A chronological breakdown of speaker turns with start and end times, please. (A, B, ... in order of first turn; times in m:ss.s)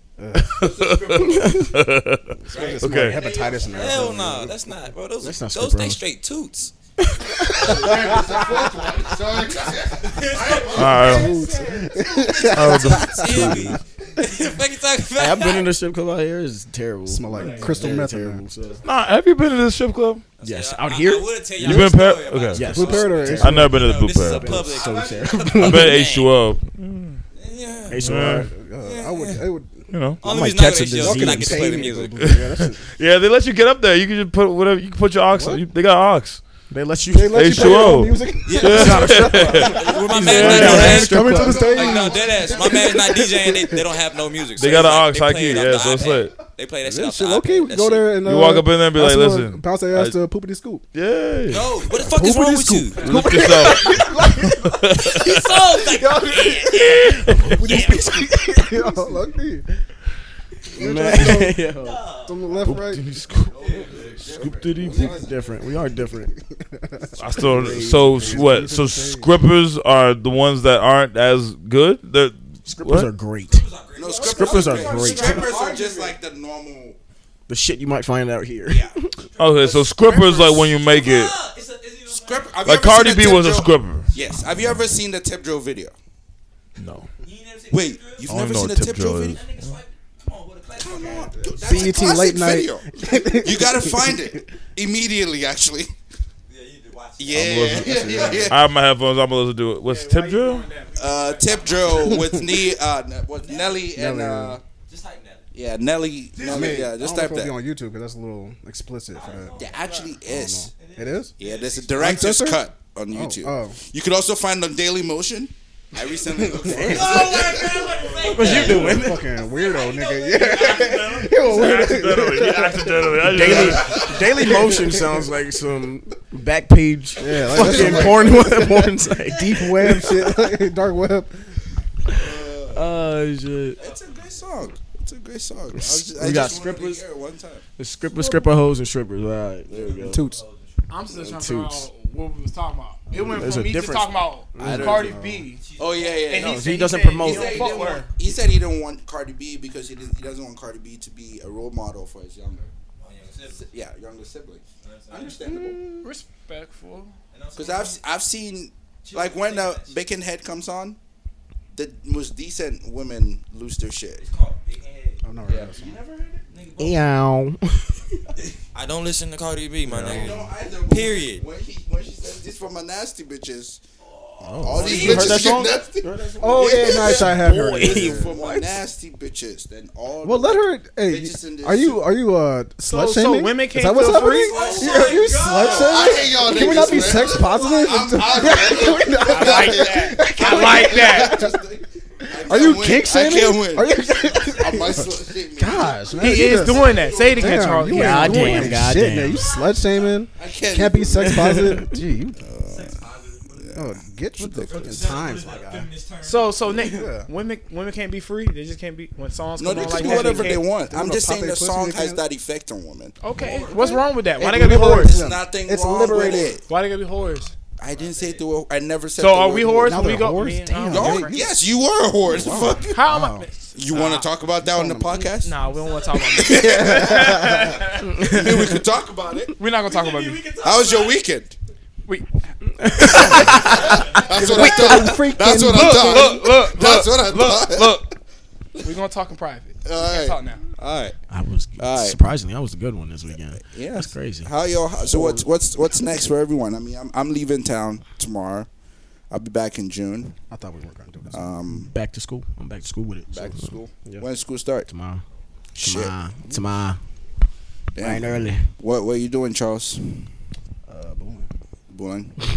0:00.2-0:00.6 A
0:00.4-0:03.2 B
0:00.6-0:01.6 C
0:01.3-0:01.7 D
0:02.4-0:04.7 A
0:02.5-0:03.7 C
0:02.5-0:06.7 E
0:05.2-0:06.0 D
0:07.0-0:08.0 D
0:07.5-0:11.2 C
0:07.6-0:08.4 A
0:08.1-0:08.5 E
0:10.0-0:15.7 E
0:10.6-0:11.9 F
0:10.7-0:11.3 B
0:10.9-0:13.8 A
0:12.5-0:13.8 B
0:15.2-0:18.8 D
0:17.1-0:18.4 A
0:17.4-0:17.9 F
0:18.8-0:20.3 B
0:20.4-0:26.3 E
0:20.4-0:21.9 D
0:21.6-0:24.8 B
0:22.5-0:26.0 D
0:22.6-0:23.8 A
0:24.8-0:25.3 C
0:25.6-0:27.2 B
0:27.4-0:28.1 E
0:27.9-0:28.5 D
0:28.0-0:28.5 B
0:28.1-0:29.9 A
0:28.8-0:29.4 E
0:29.9-0:30.2 B
0:30.2-0:32.0 D
0:30.2-0:32.2 E
0:31.0-0:32.8 A
0:32.2-0:36.4 B
0:35.3-0:35.6 A
0:36.7-0:37.8 D
0:37.1-0:43.8 A
0:37.3-0:41.2 B
0:38.4-0:48.1 E
0:38.8-0:39.1 D
0:40.1-0:41.7 D
0:41.3-0:43.0 C
0:44.6-0:46.4 B
0:46.8-0:50.8 A
0:48.2-0:50.2 B
0:50.9-0:51.7 B
0:51.5-0:54.0 E
0:52.0-0:55.0 A
0:53.0-0:55.6 B
0:55.0-0:58.9 E
0:55.8-0:59.8 A
0:56.7-0:57.9 B
1:00.7-1:01.6 A
1:00.7-1:02.1 D
1:01.6-1:02.7 E
1:02.2-1:03.1 A
1:02.6-1:05.2 B
1:03.4-1:05.7 C
1:03.4-1:04.3 E
1:05.0-1:06.3 D
1:06.2-1:09.3 A
1:07.2-1:13.1 B
1:07.4-1:08.5 D
1:12.7-1:13.7 D
1:13.4-1:16.1 E
1:14.0-1:17.0 C
1:14.2-1:16.1 F
1:14.2-1:15.5 D
1:17.5-1:19.2 D
1:18.7-1:19.0 C
1:19.2-1:22.7 E
1:19.4-1:21.3 B
1:20.1-1:20.5 C
1:22.1-1:25.9 C
1:22.6-1:24.8 B
1:26.8-1:27.1 B
1:27.2-1:28.4 E
1:27.7-1:29.4 C
1:28.3-1:29.8 B
1:29.3-1:31.9 E
1:30.8-1:35.9 C
1:31.0-1:34.4 A
1:36.5-1:38.5 E
1:37.2-1:38.6 C
1:37.3-1:40.7 B
1:38.1-1:38.4 A
1:39.8-1:42.2 F
1:41.0-1:44.6 C
1:41.4-1:42.0 E
1:42.1-1:42.4 A
1:43.4-1:43.9 E
1:43.9-1:44.6 A
1:44.9-1:45.5 E
1:45.5-1:47.6 C
1:46.4-1:46.8 E
1:46.4-1:49.6 A
1:49.1-1:50.2 E
1:49.6-1:50.7 C
1:50.2-1:51.3 A
1:50.7-1:52.4 E
1:51.4-1:59.1 C
1:52.0-1:53.8 A
1:56.0-2:01.5 E
1:56.3-1:57.5 A
1:56.7-1:57.2 D
1:58.3-1:59.2 D
1:58.4-2:05.3 A
2:00.6-2:04.2 B
2:03.2-2:10.5 D
2:03.5-2:04.4 C
2:03.7-2:04.1 E
2:07.2-2:11.4 A
2:07.5-2:08.6 C
2:09.3-2:09.6 E
2:12.1-2:12.9 C
2:12.1-2:13.8 D
2:13.8-2:14.5 E
2:13.8-2:17.6 C
2:15.7-2:17.0 D
2:17.8-2:20.2 D
2:19.7-2:20.9 E
2:19.7-2:20.1 C
2:20.0-2:20.4 A
2:20.9-2:25.6 F
2:21.1-2:21.9 D
2:23.1-2:23.5 A
2:23.2-2:25.1 D
2:24.6-2:25.1 C
2:24.6-2:25.5 A
2:25.5-2:26.4 E
2:25.8-2:32.7 C
2:26.3-2:28.1 F
2:26.4-2:27.8 D
2:27.6-2:28.0 E
2:33.0-2:33.7 E
2:33.5-2:35.8 C
2:34.8-2:35.4 E
2:35.4-2:36.1 A
2:36.0-2:37.2 F
2:37.3-2:38.0 E
2:37.6-2:41.0 C
2:39.0-2:40.0 E
2:41.7-2:44.2 C
2:44.1-2:45.2 E
2:45.2-2:46.0 A
2:45.5-2:46.4 C
2:46.5-2:47.1 E
2:46.8-2:48.2 D
2:48.7-2:51.5 E
2:49.9-2:50.4 A
2:50.0-2:53.8 C
2:54.0-2:55.6 E
2:54.4-2:58.8 D
2:54.6-3:02.0 C
2:56.4-2:58.3 A
3:00.2-3:11.6 A
3:02.8-3:05.1 F
3:04.2-3:08.6 E
3:05.6-3:17.9 C
3:09.2-3:11.4 F
3:12.3-3:22.4 A
3:16.2-3:18.8 F
3:17.9-3:19.5 D
3:19.2-3:20.2 E
3:20.4-3:21.8 C
3:21.2-3:21.9 D
3:22.4-3:23.0 C
3:22.6-3:23.8 E
3:23.5-3:25.2 C
3:23.8-3:25.9 A
3:24.7-3:26.7 E
3:26.2-3:30.7 F
3:26.8-3:27.3 A
3:29.6-3:33.2 C
3:30.0-3:32.2 A
3:33.2-3:35.2 F
3:33.3-3:33.9 E
3:33.7-3:36.6 A
3:34.4-3:36.6 C
3:36.0-3:37.6 F
3:37.8-3:40.2 C
3:37.9-3:38.5 E
3:39.2-3:41.5 F
3:39.8-3:41.5 A
3:40.8-3:43.2 C
3:42.3-3:43.5 A
3:42.5-3:42.8 E
3:42.9-3:44.3 F
3:43.7-3:45.6 C
3:44.6-3:45.3 A
3:45.4-3:48.2 F
3:45.6-3:46.3 E
3:46.1-3:47.6 C
3:46.4-3:47.8 A
3:48.1-3:48.8 D
3:48.2-3:49.5 C
3:49.6-3:50.4 F
3:49.8-3:51.2 E
3:50.6-3:51.6 C
3:52.7-3:55.3 D
3:52.9-3:53.5 F
3:53.1-3:58.1 C
3:53.4-3:54.4 E
3:54.2-3:56.4 A
3:55.6-3:58.2 F
3:58.8-4:00.6 F
3:59.8-4:01.2 C
4:01.3-4:05.4 D
4:01.8-4:02.2 C
4:03.6-4:08.7 C
4:09.3-4:10.4 C
4:10.5-4:11.5 A
4:11.3-4:11.9 C
4:11.7-4:14.3 D
4:13.3-4:14.9 C
4:14.9-4:15.2 D
4:15.7-4:16.1 C
4:15.8-4:17.0 D
4:18.0-4:20.3 C
4:18.0-4:18.7 D
4:20.9-4:21.5 A
4:21.9-4:22.4 C